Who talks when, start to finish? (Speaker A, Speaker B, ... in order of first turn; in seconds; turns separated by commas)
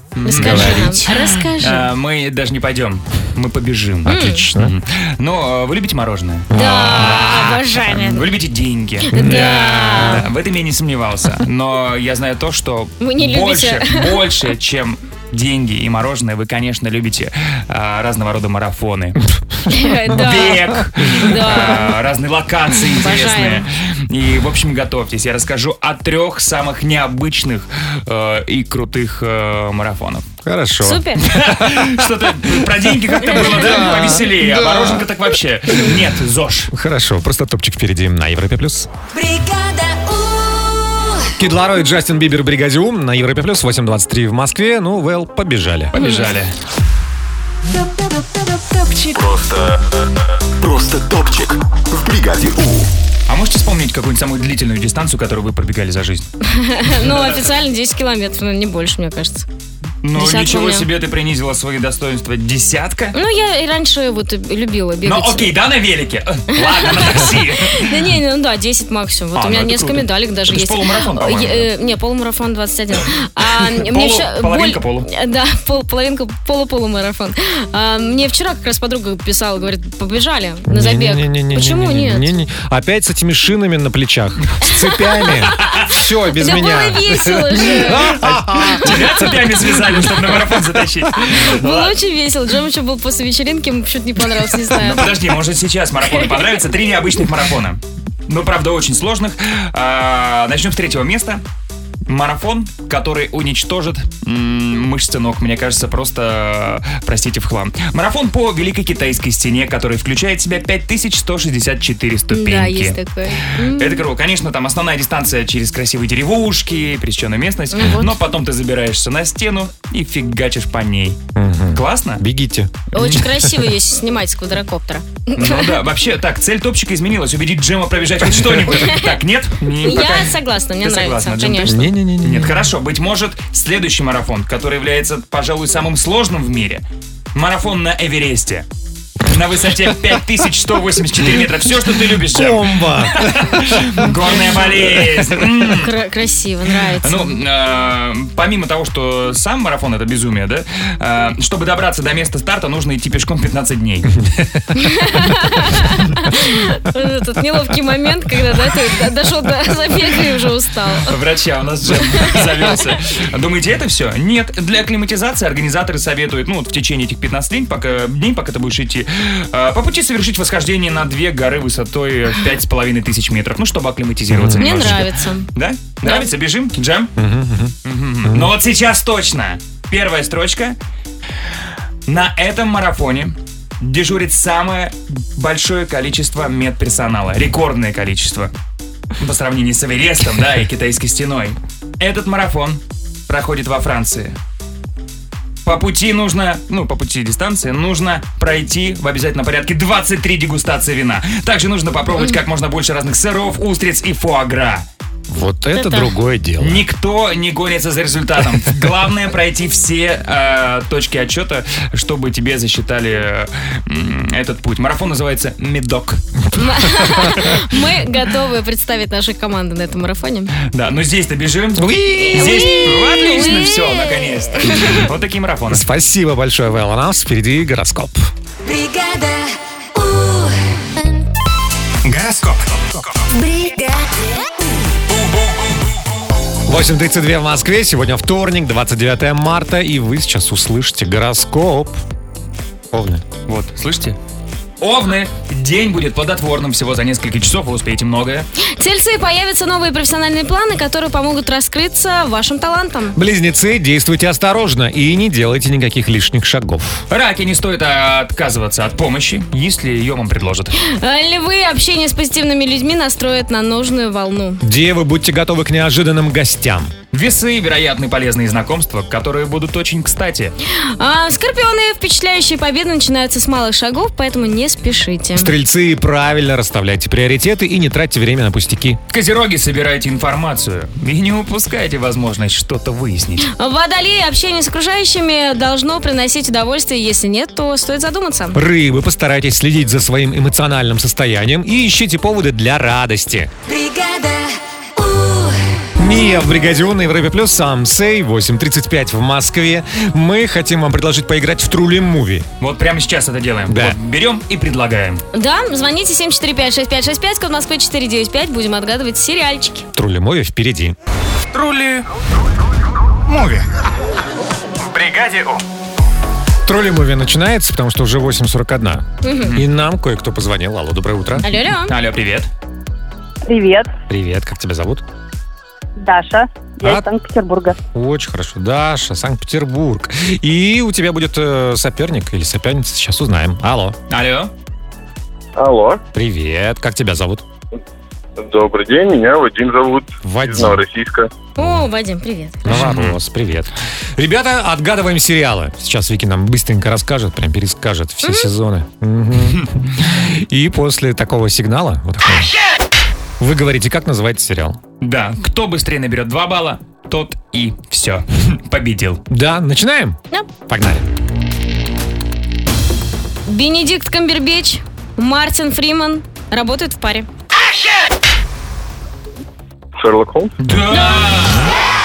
Speaker A: 0.1-19.2, Speaker B: 0.2-1.9, Speaker C: 0.3-1.0, Speaker C: 4.0-4.7, Speaker B: 4.1-4.5, Speaker C: 6.5-7.6, Speaker B: 6.5-8.2, Speaker B: 9.1-10.2, Speaker C: 9.1-10.3, Speaker B: 13.0-14.0, Speaker B: 19.7-20.6, Speaker A: 20.1-30.2, Speaker B: 21.2-21.9, Speaker B: 22.9-23.6, Speaker C: 30.4-31.9, Speaker B: 30.8-31.2, Speaker A: 31.2-36.7, Speaker C: 33.2-35.1, Speaker C: 36.7-38.9, Speaker D: 39.1-41.3, Speaker C: 41.4-45.9, Speaker A: 45.9-46.5, Speaker B: 46.0-46.3, Speaker E: 49.1-50.1, Speaker E: 50.6-52.9, Speaker A: 53.3-56.3, Speaker B: 56.4-59.5, Speaker A: 57.0-57.4, Speaker A: 60.0-63.1, Speaker B: 60.1-60.9, Speaker B: 63.1-65.5, Speaker A: 65.0-67.9, Speaker B: 66.6-82.3, Speaker A: 69.4-71.7, Speaker A: 73.6-75.1, Speaker C: 80.7-90.4, Speaker B: 86.4-88.1, Speaker A: 88.2-91.9, Speaker B: 91.3-95.1, Speaker A: 94.8-101.4, Speaker A: 102.1-113.0, Speaker B: 112.3-114.0, Speaker A: 113.5-121.2, Speaker B: 117.7-118.2, Speaker C: 121.4-122.7, Speaker A: 121.7-122.2, Speaker B: 122.9-125.8, Speaker A: 125.4-136.8, Speaker B: 128.7-129.1, Speaker B: 129.8-131.9, Speaker C: 131.6-132.6, Speaker A: 137.3-138.7, Speaker A: 139.2-145.9, Speaker C: 141.8-145.2, Speaker B: 145.8-147.4, Speaker A: 147.0-154.1, Speaker B: 154.8-161.1, Speaker A: 161.1-177.1, Speaker C: 174.3-175.0, Speaker B: 174.6-175.5, Speaker C: 177.2-177.7, Speaker A: 177.8-180.8, Speaker C: 178.2-178.5, Speaker A: 182.1-188.5, Speaker A: 189.2-194.4, Speaker A: 195.6-204.9, Speaker C: 205.3-206.8, Speaker B: 205.7-206.1, Speaker A: 206.6-216.2, Speaker B: 216.5-220.5, Speaker C: 217.1-217.4, Speaker A: 220.6-225.9, Speaker C: 221.8-223.1, Speaker B: 222.3-225.0, Speaker C: 225.7-228.3, Speaker D: 228.6-230.6, Speaker F: 232.0-233.2, Speaker D: 233.3-233.9, Speaker C: 236.7-242.0, Speaker C: 242.9-243.2, Speaker A: 243.5-244.2, Speaker A: 244.8-248.5, Speaker B: 248.8-253.2, Speaker C: 253.1-257.1, Speaker A: 257.1-260.7, Speaker B: 260.8-264.6, Speaker C: 264.6-266.9, Speaker A: 267.1-270.6, Speaker B: 270.7-275.5, Speaker C: 275.4-279.0, Speaker A: 279.1-283.5, Speaker B: 283.4-288.6, Speaker C: 288.5-293.5, Speaker D: 293.6-295.9, Speaker C: 296.0-302.5, Speaker A: 302.6-305.2, Speaker C: 303.7-304.0, Speaker B: 305.3-309.9, Speaker C: 309.9-310.9, Speaker A: 311.6-312.0, Speaker F: 313.3-313.7, Speaker F: 314.9-315.6, Speaker C: 316.6-321.5, Speaker B: 319.2-319.6, Speaker B: 321.4-321.9, Speaker A: 321.9-322.5, Speaker G: 323.4-323.9, Speaker C: 324.1-325.0, Speaker G: 326.0-327.8, Speaker C: 327.9-334.0, Speaker A: 334.1-334.5, Speaker H: 335.6-336.0, Speaker C: 336.1-337.4, Speaker H: 338.4-341.3, Speaker C: 340.2-340.8, Speaker B: 341.6-342.7, Speaker C: 342.6-352.5, Speaker A: 342.7-343.2, Speaker B: 348.2-348.5, Speaker C: 353.4-354.8, Speaker A: 355.0-359.2, Speaker C: 359.3-361.1, Speaker B: 363.4-367.3, Speaker H: 370.0-370.5, Speaker A: 370.6-371.7, Speaker B: 370.9-371.4